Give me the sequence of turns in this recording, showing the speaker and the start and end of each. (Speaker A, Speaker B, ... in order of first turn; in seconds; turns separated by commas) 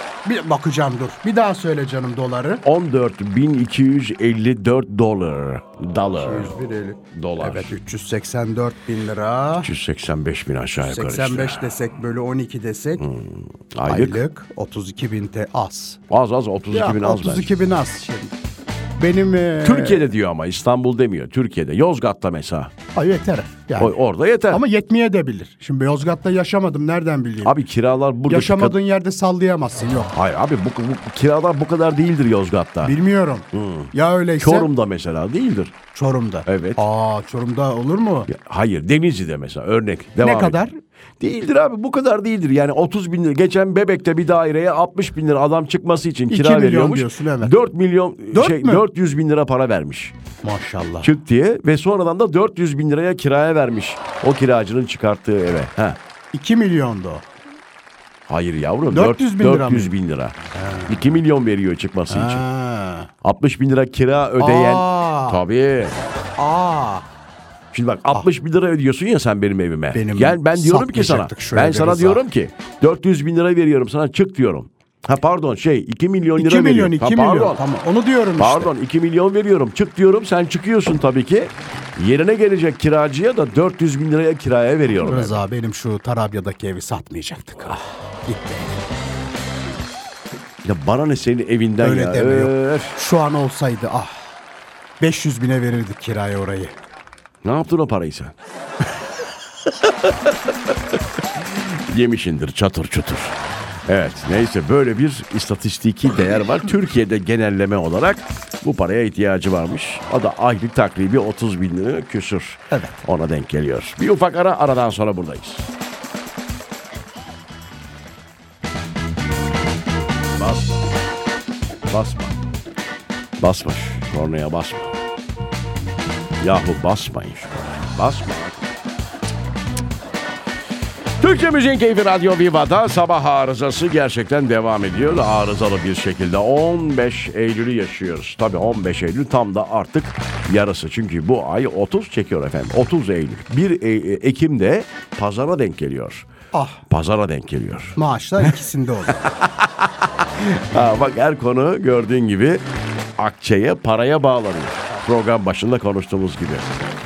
Speaker A: 0.2-2.6, Speaker B: 2.6-6.5, Speaker A: 6.1-9.7, Speaker B: 7.1-7.8, Speaker B: 9.6-11.7, Speaker A: 10.8-13.1, Speaker B: 13.0-14.2, Speaker A: 13.9-16.0, Speaker B: 16.1-17.5, Speaker A: 16.7-18.3, Speaker A: 19.0-20.1, Speaker B: 19.6-22.7, Speaker A: 22.9-24.0, Speaker B: 23.8-24.6, Speaker A: 24.5-27.6, Speaker B: 27.4-28.8, Speaker A: 28.3-30.1, Speaker B: 30.1-33.0, Speaker A: 32.8-34.7, Speaker B: 33.5-35.8, Speaker A: 35.9-38.3, Speaker B: 36.5-36.8, Speaker B: 38.3-40.6, Speaker A: 40.2-40.7, Speaker B: 41.2-50.1, Speaker A: 46.3-47.6, Speaker A: 48.3-48.8, Speaker A: 50.4-51.1, Speaker B: 51.0-56.0, Speaker A: 56.3-57.3, Speaker B: 58.3-60.4, Speaker A: 58.9-59.9, Speaker A: 60.5-61.0, Speaker B: 60.9-62.4, Speaker A: 62.1-63.1, Speaker B: 63.2-66.0, Speaker A: 64.4-65.4, Speaker A: 66.4-67.1, Speaker B: 67.7-77.6, Speaker A: 69.9-72.2, Speaker A: 76.4-78.7, Speaker B: 78.4-85.4, Speaker A: 85.0-88.7, Speaker B: 90.6-93.0, Speaker A: 91.8-94.3, Speaker A: 95.0-96.7, Speaker B: 97.4-98.4, Speaker B: 99.6-115.7, Speaker A: 112.7-113.0, Speaker B: 120.3-120.9, Speaker B: 121.9-122.4, Speaker B: 123.4-125.0, Speaker B: 126.4-128.7, Speaker B: 131.2-146.3, Speaker A: 146.5-146.8, Speaker B: 146.9-148.0, Speaker A: 147.9-149.3, Speaker B: 149.1-152.6, Speaker B: 153.2-156.8